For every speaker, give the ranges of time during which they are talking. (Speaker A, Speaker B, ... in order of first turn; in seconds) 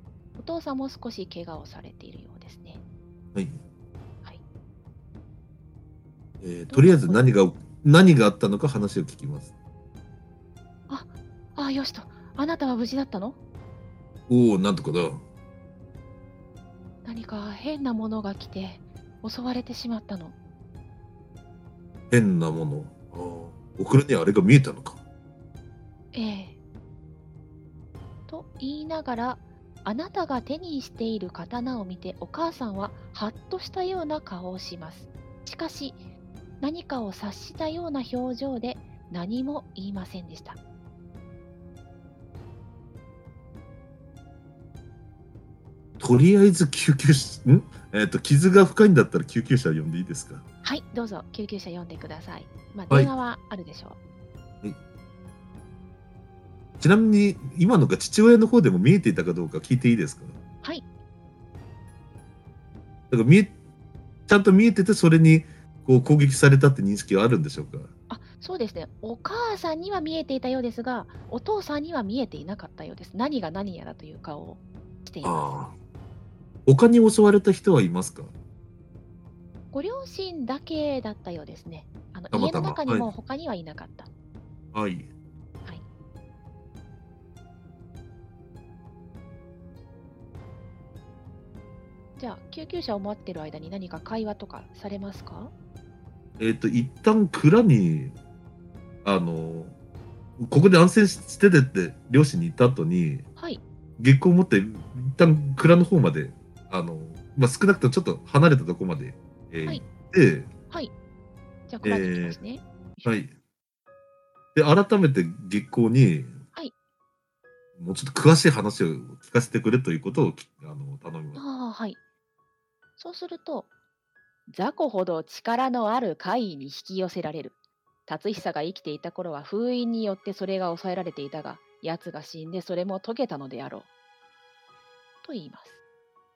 Speaker A: 0.4-2.8, 6.7-7.2, 10.9-13.4, 17.1-20.4, 26.1-26.6, 28.3-36.0, 36.6-40.6, 50.6-54.0, 68.1-75.6, 79.7-84.1, 92.2-95.5, 103.4-103.6, 111.7-113.1, 121.3-122.0, 123.0-123.7, 124.5-133.9, 135.2-135.8
Speaker B: 3.3-3.6, 6.4-9.5, 14.3-15.2, 22.1-25.0, 46.0-50.4, 56.8-60.4, 63.1-63.5, 64.3-67.9, 75.2-75.7, 76.7-78.3, 82.3-83.1, 84.7-85.1, 96.4-98.1, 99.0-99.7, 100.4-103.3, 104.0-110.5, 111.8-112.4, 113.0-113.3, 114.5-116.4, 117.8-121.4